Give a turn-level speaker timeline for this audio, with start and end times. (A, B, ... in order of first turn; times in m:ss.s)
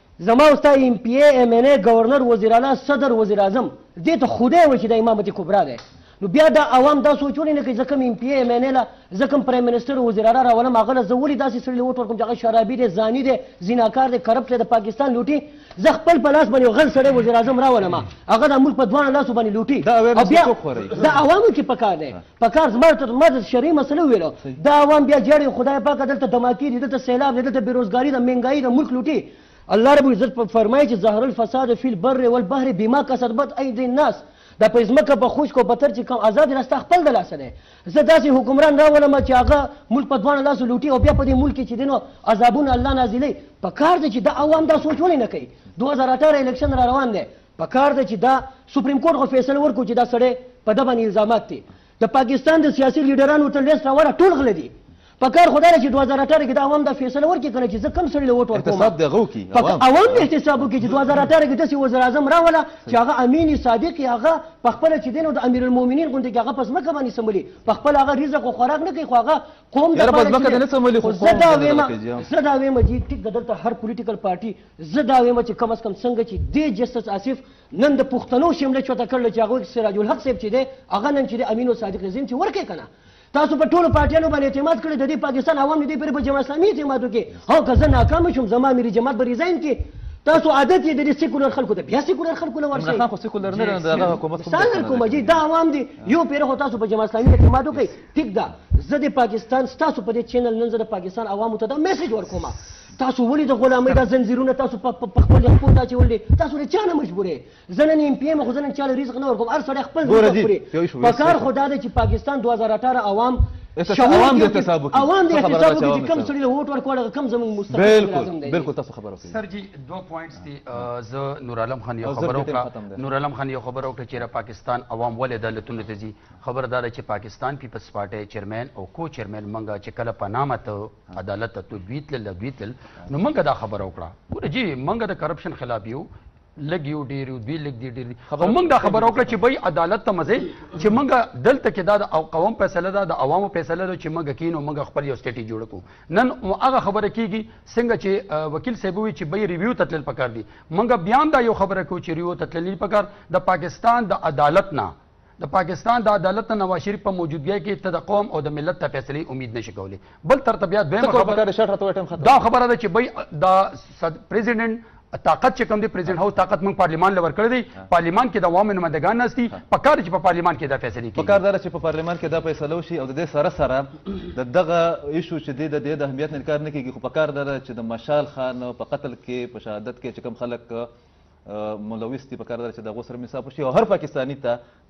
0:00.2-0:59.0 A
0:19.8-0:21.2 B
0:58.5-1:00.3 B
0:59.5-1:58.7 A
1:09.9-1:12.3 B
1:32.7-1:35.4 B
1:50.0-1:51.5 B
1:53.8-1:56.3 B
1:57.7-1:59.4 B
1:59.2-2:41.4 C
2:02.0-2:03.0 B
2:18.3-2:19.4 B
2:41.0-2:42.4 B
2:42.2-2:51.4 C
2:51.2-3:00.9 B
3:01.4-3:04.6 B